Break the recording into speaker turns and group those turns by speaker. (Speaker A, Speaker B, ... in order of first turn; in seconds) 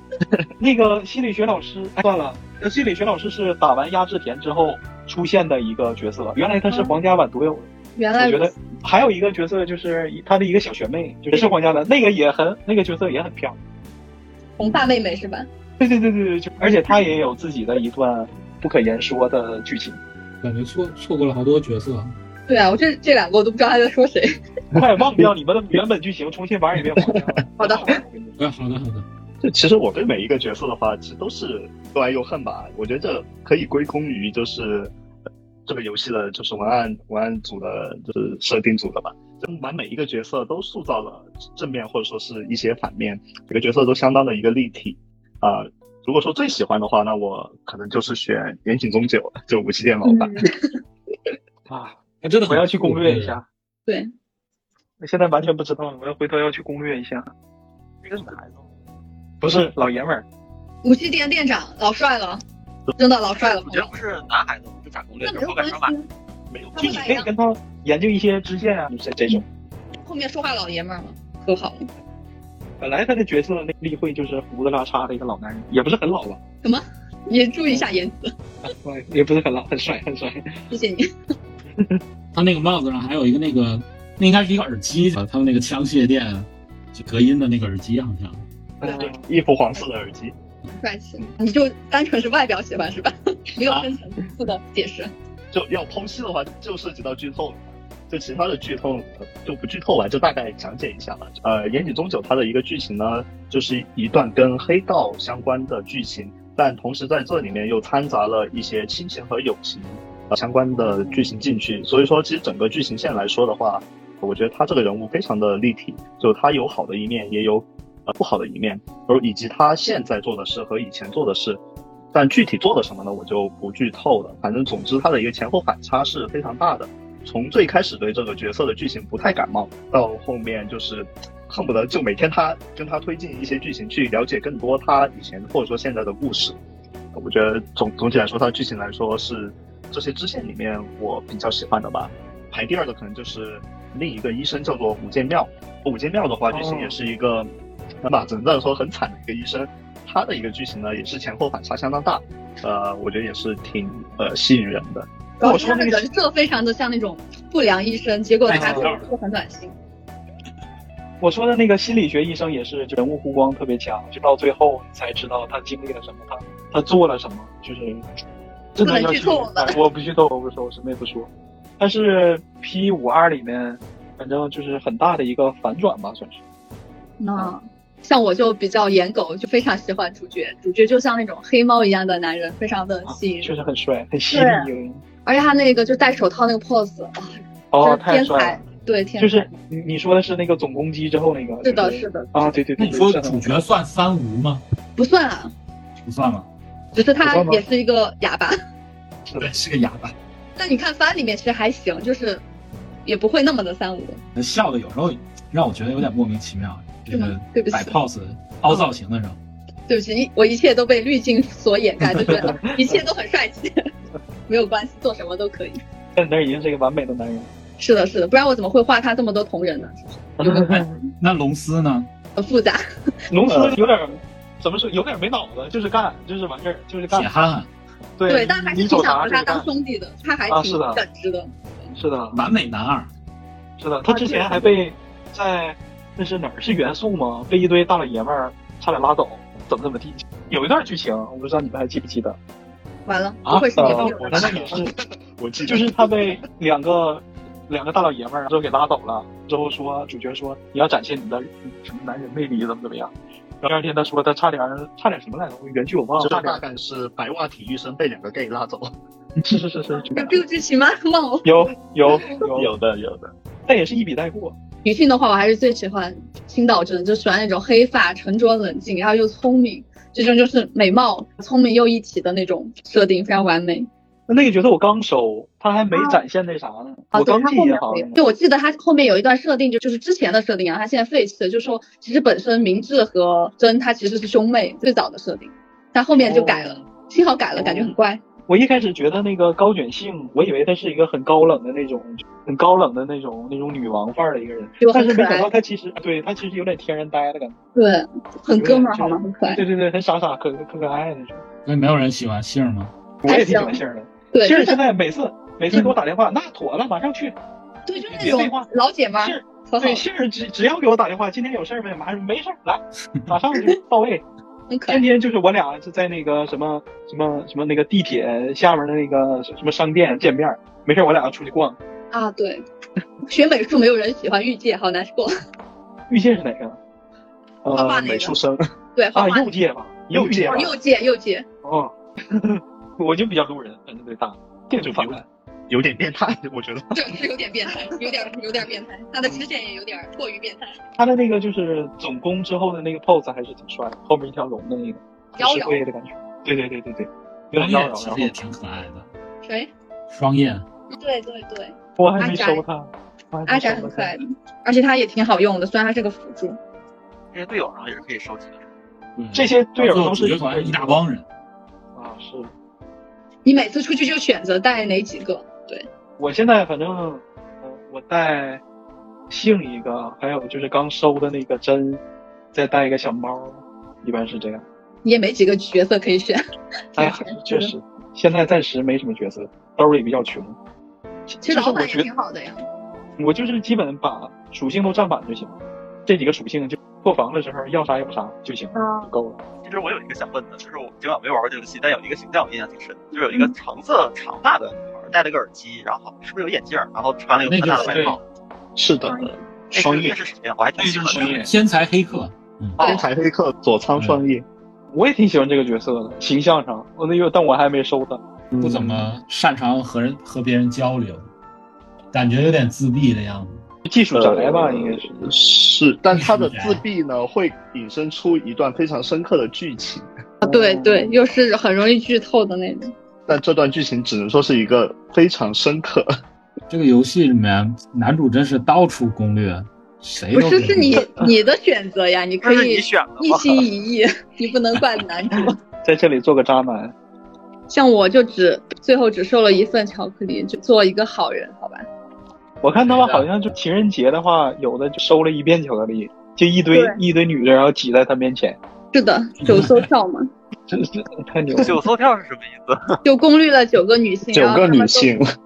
Speaker A: 0.6-13.6, 15.8-20.0, 24.7-28.4, 51.7-53.5, 55.0-57.3, 59.4-60.2, 66.8-69.4, 72.8-76.4, 78.6-80.6, 88.8-89.2, 146.5-146.9, 155.4-156.1, 158.5-158.9, 161.2-168.1, 168.8-176.4, 183.1-185.0, 187.7-188.6, 189.2-193.6, 197.2-197.6, 212.3-212.8, 216.2-217.5, 220.4-220.9, 223.3-227.3, 228.2-229.7, 230.5-231.0, 232.0-232.4, 233.8-242.4, 243.4-244.9, 245.7-256.6, 259.4-260.4, 261.4-262.7, 263.7-264.6, 274.3-278.2, 286.2-286.8, 287.6-287.9, 288.5-297.6, 298.5-301.4, 303.2-307.4, 308.2-308.7, 309.2-314.2, 314.9-321.8, 326.1-326.8, 327.6-328.3, 329.1-330.8, 331.6-335.2, 341.0-348.3, 352.0-354.2, 359.3-361.0, 362.0-362.5, 366.2-368.6, 369.3-372.0, 372.5-374.6, 377.0-380.6, 381.3-382.1, 383.2-389.4, 397.9-398.1, 399.8-400.1, 400.8-401.5, 404.9-408.2, 413.9-415.3, 420.4-421.2, 435.8-436.9, 442.6-448.6, 450.7-451.7
Speaker B: 8.0-8.5, 14.6-15.5, 22.5-24.3, 27.6-28.0, 50.0-50.8, 60.8-62.4, 63.0-64.0, 65.2-66.1, 66.7-67.3, 70.0-71.9, 76.6-78.3, 80.7-81.1, 90.7-95.1, 155.4-159.8, 168.8-169.8, 177.2-183.5, 184.3-184.7, 185.3-189.5, 191.6-192.5, 195.0-195.5, 196.9-198.6, 200.6-202.4, 203.1-204.2, 207.1-208.0, 209.9-213.7, 214.5-215.8, 217.8-221.0, 222.4-222.8, 228.3-231.9, 234.1-234.7, 243.1-244.8, 259.9-261.5, 264.9-273.9, 275.9-276.2, 277.1-288.2, 294.8-295.5, 297.8-299.6, 303.3-303.8, 304.3-304.8, 307.9-310.1, 314.7-315.0, 322.1-322.6, 323.2-325.3, 327.7-328.4, 329.0-329.5, 330.2-331.4, 336.9-340.8, 345.4-345.8, 349.4-349.7, 350.9-352.6, 353.5-356.6, 363.4-365.9, 375.0-376.4, 376.9-377.7, 381.4-382.6, 388.8-389.1, 399.1-399.3, 420.4-422.9, 430.3-435.6, 437.7-441.9, 448.9-450.3, 453.0-455.1
Speaker C: 20.4-22.1, 28.4-29.1, 52.2-53.4, 82.3-88.4, 158.5-159.1, 192.8-194.6, 196.0-196.5, 199.4-200.1, 204.3-209.4, 221.2-222.1, 227.1-227.7, 232.3-233.1, 301.7-302.9, 347.6-349.1, 350.1-350.6, 359.2-361.2, 397.4-398.2, 401.1-402.8, 408.6-411.3, 412.1-413.6, 416.1-416.8, 426.7-431.1, 442.8-443.3, 449.4-449.8
Speaker D: 29.4-34.9, 35.7-50.4, 66.5-67.0, 88.8-90.3, 95.5-121.6, 122.1-136.6, 137.1-147.5, 148.0-155.1, 223.5-223.8, 243.8-246.4, 256.2-258.9, 262.1-263.3, 328.0-328.6, 330.1-330.7, 334.8-337.2, 398.8-400.1, 402.8-404.5, 408.5-409.1, 414.1-420.1, 423.3-426.1, 454.3-455.3
Speaker E: 58.0-58.6, 63.4-65.9, 357.3-358.6, 389.6-398.2, 399.7-401.4, 432.4-433.6, 451.6-453.0